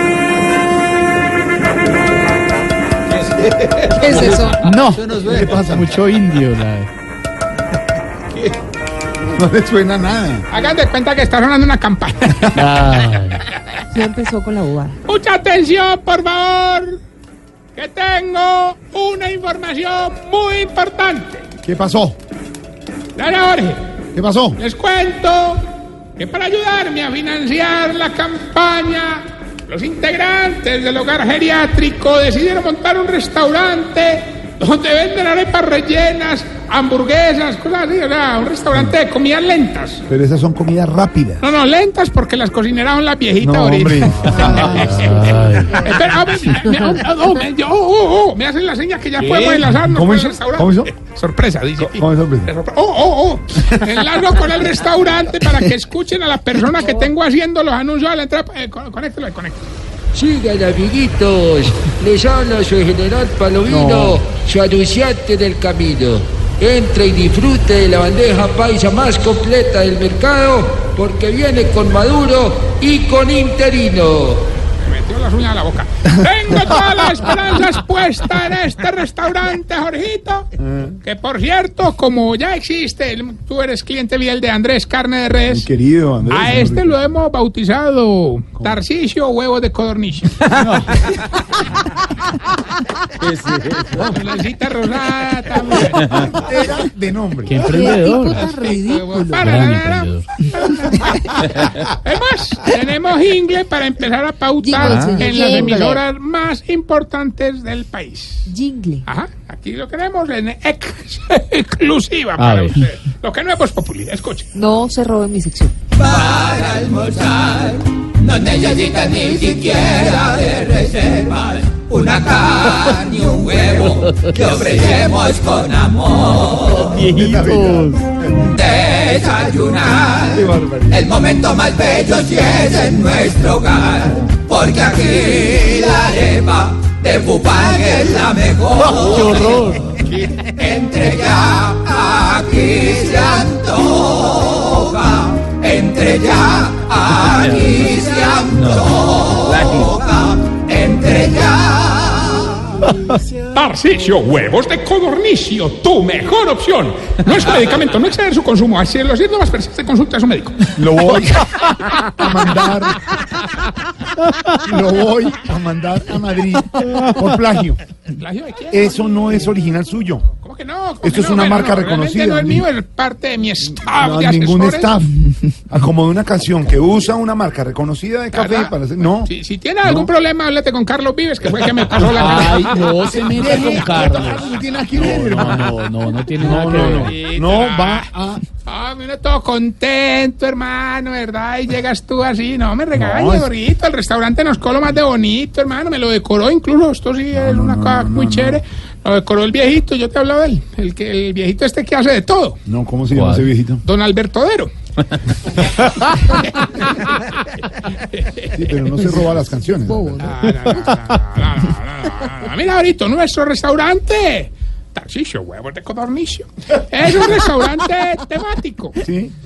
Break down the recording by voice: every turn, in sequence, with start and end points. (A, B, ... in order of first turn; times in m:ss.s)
0:03.8-0:04.7 A
0:04.6-0:06.9 B
0:05.1-0:05.9 C
0:09.2-0:10.5 C
0:10.5-0:12.7 D
0:12.5-0:13.5 B
0:13.9-0:15.0 A
0:15.1-0:17.0 D
0:17.8-0:21.5 D
0:21.6-0:22.2 C
0:23.2-0:23.9 D
0:24.1-0:24.6 C
0:24.6-0:25.6 D
0:26.2-0:40.0 D
0:40.1-0:41.5 C
0:41.4-0:59.7 D
0:43.4-0:45.0 C
0:44.7-0:45.9 B
0:49.8-0:50.9 C
0:51.8-0:52.5 C
1:00.1-1:14.5 E
1:03.7-1:04.2 C
1:14.8-1:20.5 D
1:20.6-1:21.0 C
1:21.0-1:25.7 D
1:25.5-1:27.0 C
1:26.3-1:30.5 D
1:30.5-1:31.0 B
1:33.4-1:33.8 B
1:34.0-1:36.4 D
1:36.0-1:38.0 C
1:37.5-1:38.5 B
1:37.6-1:39.6 A
1:38.4-1:48.5 D
1:39.4-1:40.3 B
1:44.6-1:46.0 A
1:48.5-1:49.1 A
1:49.1-1:54.5 D
1:52.4-1:52.9 B
1:54.6-1:55.7 A
1:56.1-2:06.4 F
2:03.7-2:04.8 B
2:06.5-2:08.1 B
2:07.0-2:08.7 C
2:08.7-2:10.1 F
2:10.1-2:11.2 C
2:11.1-2:19.0 F
2:18.7-2:20.0 B
2:20.4-2:32.5 F
2:33.5-2:40.7 D
2:40.7-2:43.2 C
2:44.5-2:47.8 C
2:48.1-2:49.5 D
2:48.7-2:50.3 C
2:50.3-2:54.9 D
2:51.0-2:52.7 C
2:53.6-2:59.3 C
2:58.3-3:03.0 D
3:02.1-3:07.2 B
3:03.2-3:08.4 C
3:06.6-3:08.1 D
3:08.6-3:22.6 D
3:12.9-3:13.5 C
3:17.3-3:18.6 C
3:22.7-3:23.8 C
3:23.8-3:24.7 D
3:25.5-3:29.0 D
3:28.5-3:30.2 C
3:29.8-3:30.3 A
3:30.2-3:39.0 D
3:39.0-3:39.3 C